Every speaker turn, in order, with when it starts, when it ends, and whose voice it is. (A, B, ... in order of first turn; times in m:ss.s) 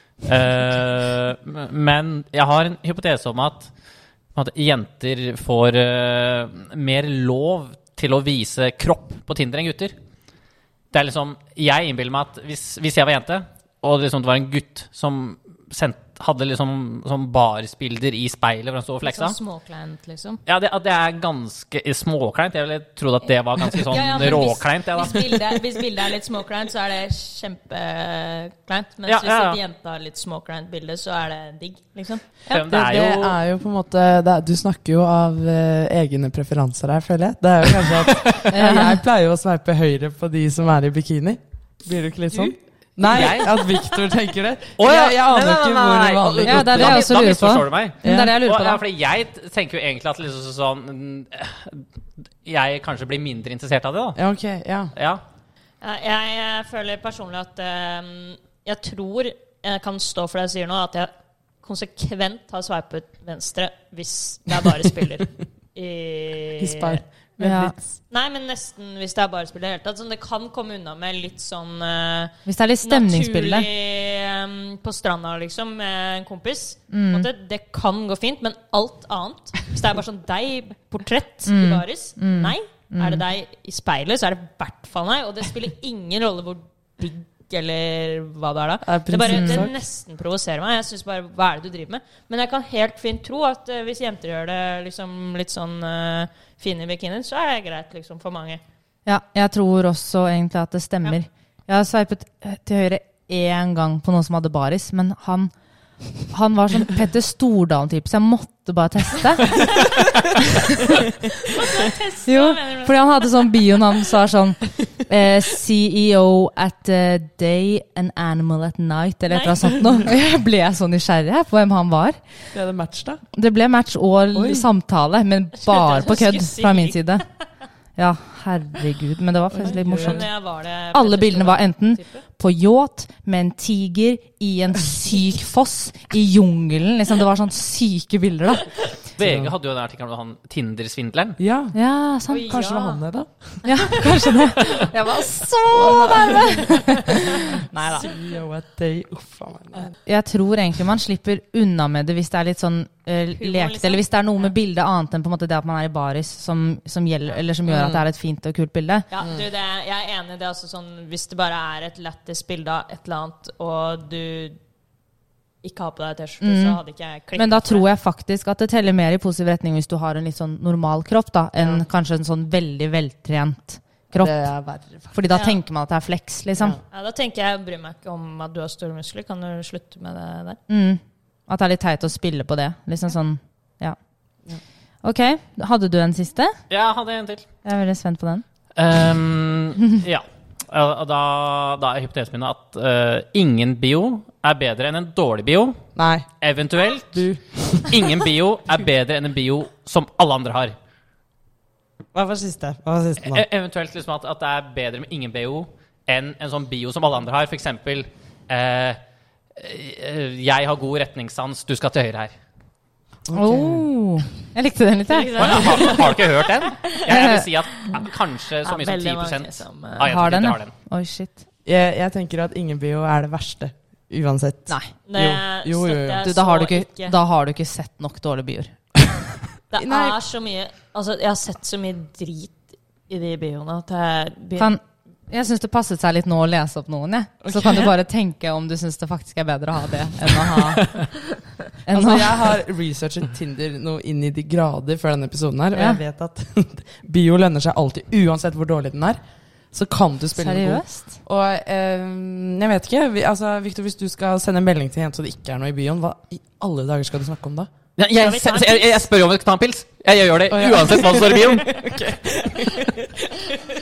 0:00.2-0:03.7 A
0:04.4-0:10.0 A
0:10.9-0:19.4 A
0:19.0-0:20.4 B
0:20.5-0:25.4 A
0:23.8-0:32.4 B
0:29.1-0:29.6 A
0:32.5-0:33.4 A
0:32.5-0:47.2 C
0:38.5-0:39.0 D
0:43.0-0:43.7 A
0:44.8-0:51.9 A
0:46.4-0:48.8 D
0:48.0-0:48.4 C
0:52.4-0:54.2 A
0:54.2-0:54.9 C
0:54.9-0:55.2 A
0:55.8-1:01.1 B
1:01.6-1:07.0 B
1:06.6-1:08.0 C
1:07.4-1:07.7 D
1:08.1-1:38.6 B
1:12.5-1:13.7 D
1:16.9-1:17.3 D
1:21.5-1:23.2 D
1:28.8-1:29.8 C
1:29.3-1:29.7 D
1:39.1-1:45.5 D
1:46.2-1:50.0 D
1:51.4-1:53.7 B
1:52.3-2:02.2 D
1:59.3-1:59.8 B
2:02.5-2:03.2 C
2:03.4-2:07.2 D
2:04.3-2:04.7 C
2:05.6-2:07.2 B
2:08.0-2:10.3 D
2:09.5-2:10.2 C
2:09.7-2:12.2 B
2:10.9-2:18.8 D
2:19.2-2:21.4 A
2:19.2-2:19.5 C
2:21.4-2:21.8 C
2:21.7-2:22.6 D
2:22.3-2:23.0 B
2:22.5-2:23.9 C
2:23.6-2:28.1 D
2:25.7-2:29.9 C
2:30.0-2:39.1 D
2:33.4-2:34.0 B
2:39.1-2:44.6 B
2:45.6-2:47.9 B
2:46.4-2:46.8 D
2:47.4-2:54.5 D
2:51.6-2:51.8 C
2:54.1-2:55.1 C
2:55.1-2:56.8 D
2:55.3-2:55.6 B
2:56.6-2:56.8 C
2:56.9-3:00.6 B
3:00.7-3:04.0 D
3:05.0-3:06.6 D
3:06.7-3:07.5 A
3:07.6-3:08.4 D
3:08.8-3:15.8 A
3:16.0-3:16.3 C
3:16.4-3:20.8 A
3:17.1-3:17.9 C
3:22.1-3:23.4 C
3:23.2-3:29.0 A
3:29.6-3:32.4 A
3:33.3-3:33.9 C
3:33.3-3:35.9 D
3:35.1-3:37.0 B
3:35.4-3:40.7 A
3:37.1-3:37.5 D
3:38.6-3:40.1 B
3:40.0-3:41.4 D
3:41.6-3:46.2 C
3:45.1-3:47.2 B
3:46.2-3:48.8 D
3:49.7-3:54.8 B
3:49.8-3:50.2 C
3:54.6-4:01.2 D
3:57.4-3:57.9 C
4:01.9-4:02.5 D
4:01.9-4:09.2 C
4:05.7-4:06.0 D
4:09.7-4:17.7 C
4:10.4-4:11.2 D
4:18.0-4:21.8 A
4:18.2-4:19.1 B
4:20.5-4:23.5 C